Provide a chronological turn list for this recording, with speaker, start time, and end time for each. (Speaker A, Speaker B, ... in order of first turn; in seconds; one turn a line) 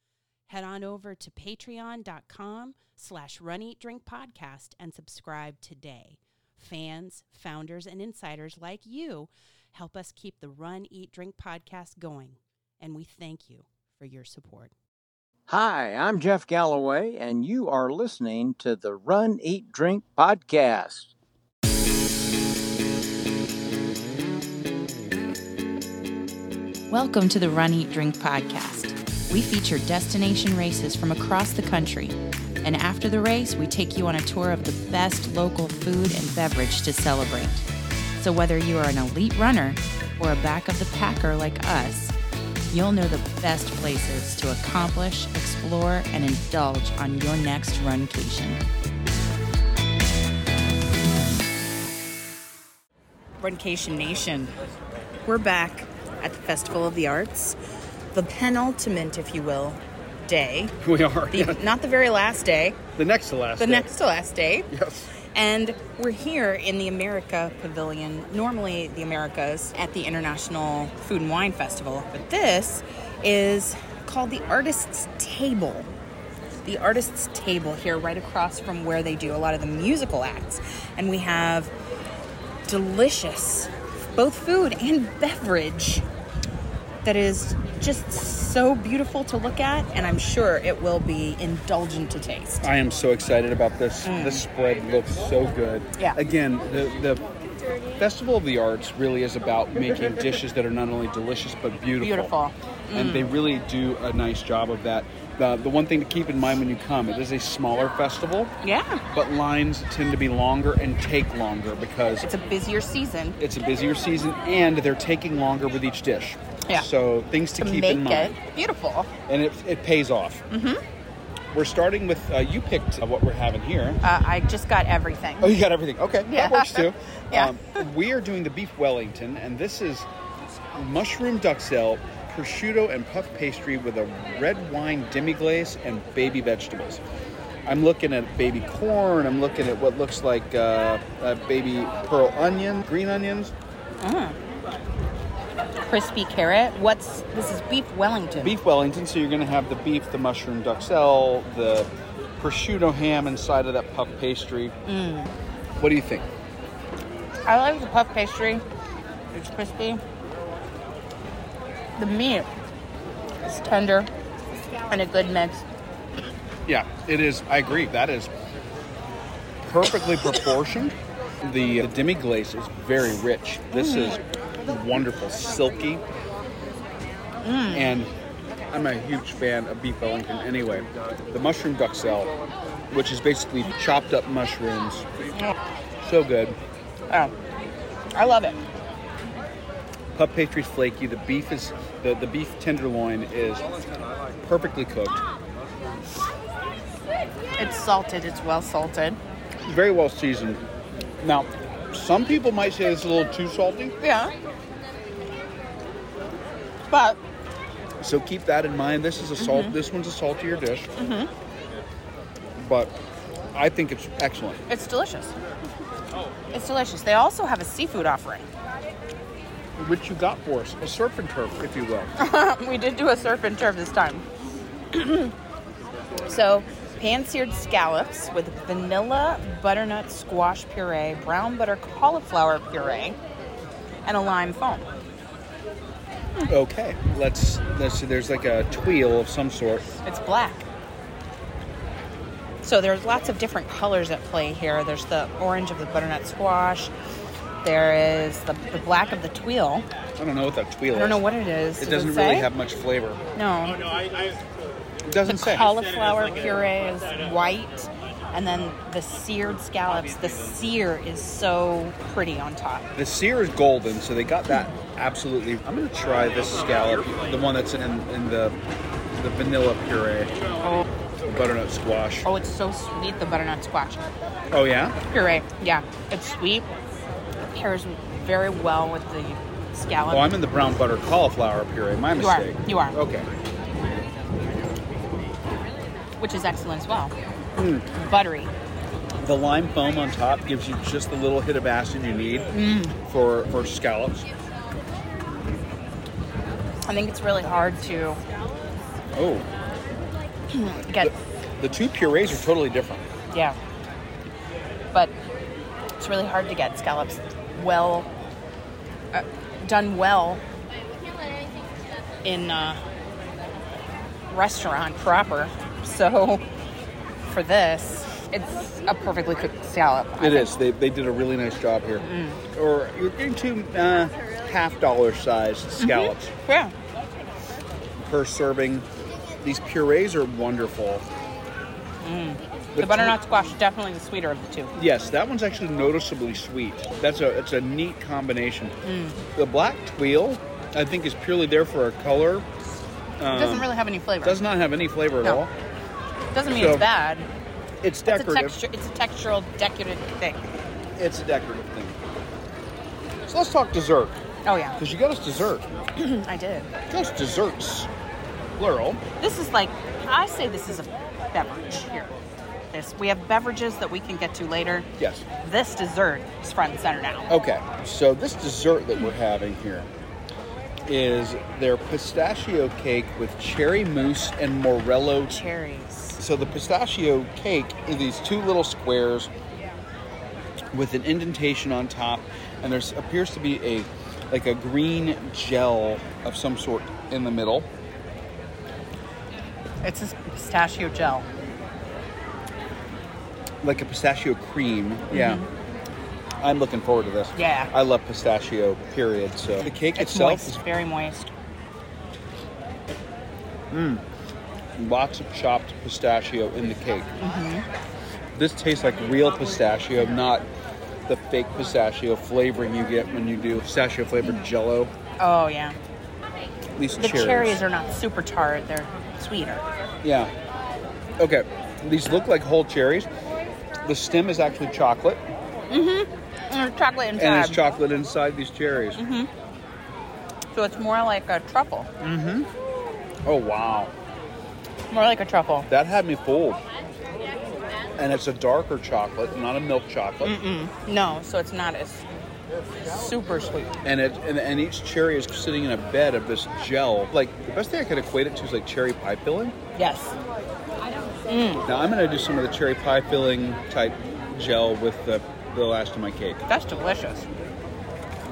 Speaker A: 0.5-14.7
Speaker B: 15.5-21.1
Speaker A: 26.9-32.1
Speaker A: 32.6-37.4
Speaker A: 38.6-39.4
Speaker C: 39.5-39.7
Speaker A: 40.2-42.1
Speaker A: 42.7-48.6
Speaker C: 53.4-54.5
Speaker C: 55.2-57.6
Speaker C: 58.1-60.7
Speaker D: 60.8-61.6
Speaker C: 61.3-62.8
Speaker D: 63.0-63.9
Speaker C: 63.6-64.7
Speaker D: 64.7-65.1
Speaker C: 65.3-75.9
Speaker C: 76.6-81.7
Speaker C: 82.7-86.0
Speaker C: 87.0-92.7
Speaker D: 92.6-97.2
Speaker C: 94.0-94.4
Speaker D: 98.0-102.3
Speaker C: 102.0-103.3
Speaker D: 102.9-108.5
Speaker C: 108.6-109.0
Speaker D: 109.1-112.3
Speaker C: 112.2-113.4
Speaker D: 113.4-118.3
Speaker C: 117.6-119.1
Speaker D: 119.3-120.4
Speaker C: 120.5-120.8
Speaker D: 121.5-124.0
Speaker C: 124.0-125.5
Speaker D: 125.4-130.1
Speaker C: 126.3-127.6
Speaker D: 130.7-137.0
Speaker D: 137.7-143.5
Speaker C: 144.0-144.4
Speaker C: 145.9-148.5
Speaker D: 148.4-154.7
Speaker C: 154.8-155.3
Speaker D: 155.8-156.3
Speaker C: 157.4-158.6
Speaker C: 159.3-160.0
Speaker C: 162.0-162.5
Speaker C: 163.4-164.1
Speaker C: 164.9-165.6
Speaker D: 166.7-168.3
Speaker D: 169.6-176.0
Speaker C: 173.7-174.2
Speaker C: 177.4-177.9
Speaker D: 177.7-178.1
Speaker D: 178.7-182.3
Speaker D: 182.9-185.1
Speaker D: 186.0-186.6
Speaker C: 188.1-188.6
Speaker D: 190.1-193.8
Speaker D: 194.4-195.2
Speaker C: 197.6-199.2
Speaker D: 199.6-200.6
Speaker D: 201.2-203.9
Speaker C: 204.0-204.3
Speaker C: 206.9-207.2
Speaker D: 208.0-210.9
Speaker C: 209.4-209.8
Speaker C: 211.0-211.3
Speaker D: 212.6-212.9
Speaker D: 213.5-214.6
Speaker C: 214.7-215.3
Speaker C: 216.5-218.5
Speaker D: 219.8-222.1
Speaker C: 222.2-224.2
Speaker C: 224.9-225.3
Speaker C: 226.2-233.2
Speaker C: 234.1-234.9
Speaker D: 236.4-239.9
Speaker C: 240.0-240.7
Speaker C: 242.6-246.9
Speaker C: 247.6-249.8
Speaker D: 250.2-251.2
Speaker C: 250.9-252.5
Speaker D: 251.8-253.2
Speaker C: 253.3-253.8
Speaker D: 255.0-255.7
Speaker C: 255.3-262.9
Speaker D: 262.9-268.6
Speaker D: 269.2-270.3
Speaker D: 271.2-272.3
Speaker C: 272.2-274.0
Speaker D: 274.5-275.0
Speaker C: 275.1-276.7
Speaker C: 277.5-280.3
Speaker D: 280.1-283.3
Speaker C: 282.2-283.0
Speaker C: 286.2-287.1
Speaker D: 287.6-287.9
Speaker C: 288.0-288.5
Speaker D: 289.2-292.5
Speaker C: 292.5-292.9
Speaker D: 293.0-294.3
Speaker C: 296.9-298.2
Speaker D: 299.1-299.4
Speaker C: 300.5-301.1
Speaker D: 301.0-303.1
Speaker C: 303.3-303.6
Speaker C: 306.0-308.1
Speaker C: 309.1-310.4
Speaker C: 312.2-312.8
Speaker C: 314.3-316.4
Speaker C: 317.2-320.5
Speaker D: 320.2-326.3
Speaker C: 322.0-322.4
Speaker C: 325.8-326.7
Speaker D: 327.9-328.9
Speaker D: 329.4-331.0
Speaker C: 332.0-334.7
Speaker D: 332.8-333.1
Speaker D: 334.7-338.7
Speaker C: 338.8-339.2
Speaker D: 339.3-342.4
Speaker D: 343.2-343.7
Speaker C: 343.3-344.4
Speaker D: 344.2-345.5
Speaker C: 346.3-347.3
Speaker D: 346.4-346.9
Speaker D: 347.8-348.6
Speaker C: 348.1-350.4
Speaker D: 351.0-352.0
Speaker D: 353.3-354.2
Speaker C: 354.4-354.8
Speaker D: 354.8-355.7
Speaker C: 356.0-356.7
Speaker D: 356.9-357.9
Speaker D: 358.6-359.0
Speaker C: 359.2-362.1
Speaker C: 362.7-364.9
Speaker D: 365.0-365.2
Speaker C: 365.4-367.3
Speaker D: 367.3-369.9
Speaker D: 370.9-375.4
Speaker C: 375.3-376.2
Speaker D: 376.2-379.3
Speaker D: 380.7-387.7
Speaker C: 389.8-391.2
Speaker D: 393.6-395.4
Speaker C: 395.1-395.4
Speaker D: 396.4-400.6
Speaker C: 397.3-397.7
Speaker C: 399.8-401.3
Speaker D: 403.7-404.0
Speaker D: 404.8-407.1
Speaker C: 407.2-407.6
Speaker D: 408.3-410.4
Speaker D: 411.1-414.9
Speaker C: 415.2-415.8
Speaker D: 416.8-417.6
Speaker C: 417.0-419.6
Speaker D: 420.0-420.3
Speaker D: 421.2-423.1
Speaker D: 423.8-425.3
Speaker C: 425.7-427.6
Speaker D: 427.2-429.0
Speaker C: 429.0-429.3
Speaker C: 430.5-431.9
Speaker D: 432.0-432.5
Speaker D: 433.2-433.9
Speaker C: 434.9-435.7
Speaker D: 435.7-436.6
Speaker D: 438.0-440.4
Speaker C: 440.2-442.1
Speaker C: 442.8-443.7
Speaker D: 443.8-449.6
Speaker C: 449.7-450.1
Speaker C: 451.3-451.6
Speaker D: 451.6-456.4
Speaker C: 456.5-457.3